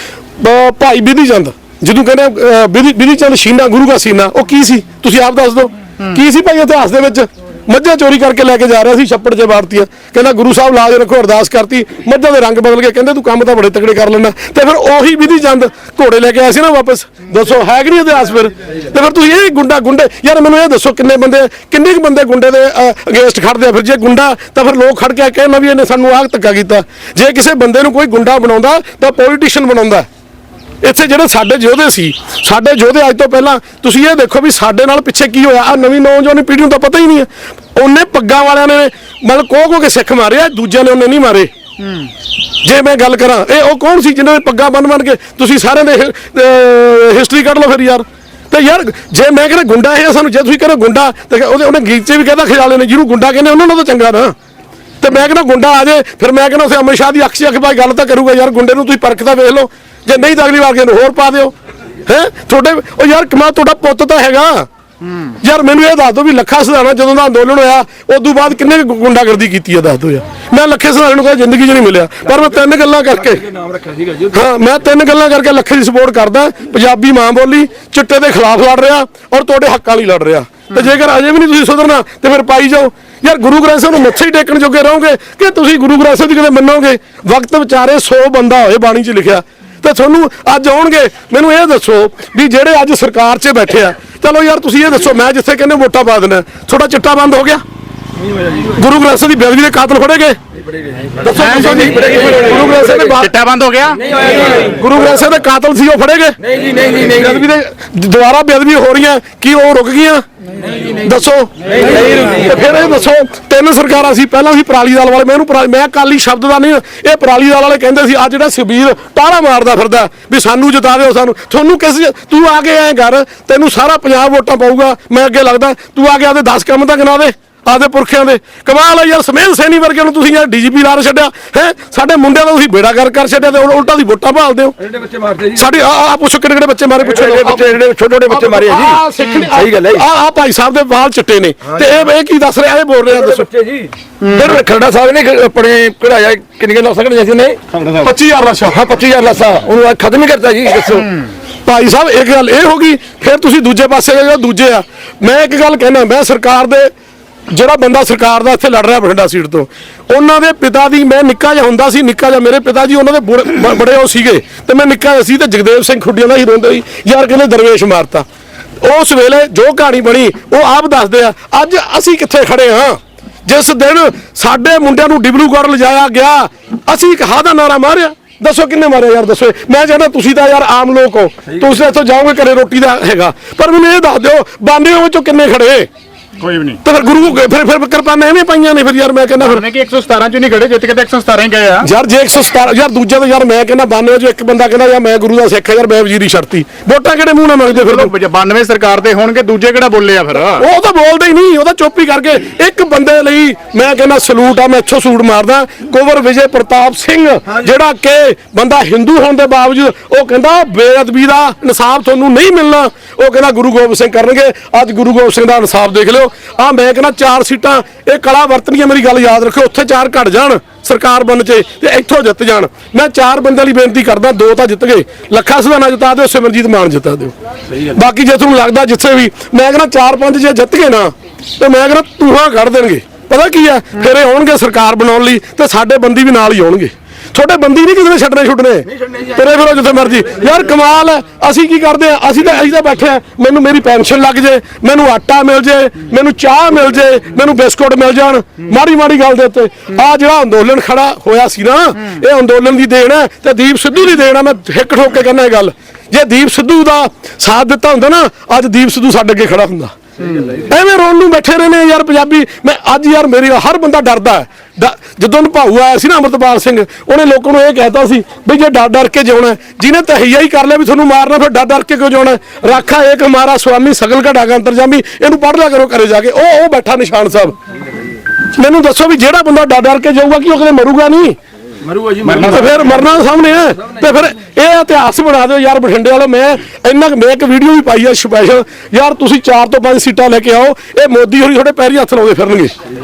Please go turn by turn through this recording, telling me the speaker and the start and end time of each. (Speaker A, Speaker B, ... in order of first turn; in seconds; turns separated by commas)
Speaker A: 0.4-30.1, Speaker A: 30.8-41.5, Speaker A: 42.6-54.3, Speaker A: 55.0-61.5, Speaker A: 62.1-64.7, Speaker A: 65.4-73.5, Speaker B: 73.6-74.3, Speaker A: 74.3-97.6, Speaker A: 98.7-100.4, Speaker A: 101.2-103.3, Speaker C: 101.3-102.0, Speaker C: 102.9-104.1, Speaker A: 104.5-110.2, Speaker A: 111.0-134.8, Speaker B: 134.9-135.7, Speaker A: 135.5-143.5, Speaker B: 137.1-140.1, Speaker B: 143.1-148.1, Speaker A: 148.0-148.8, Speaker B: 148.7-151.2, Speaker A: 151.7-156.9, Speaker A: 157.5-168.3, Speaker A: 168.8-185.9, Speaker C: 186.4-186.8, Speaker A: 186.8-189.6, Speaker C: 189.4-191.9, Speaker A: 191.8-198.1, Speaker C: 197.7-200.7, Speaker A: 200.6-259.9, Speaker A: 260.5-277.6, Speaker A: 278.6-281.4, Speaker B: 281.9-282.4, Speaker A: 282.2-292.7, Speaker C: 282.3-282.7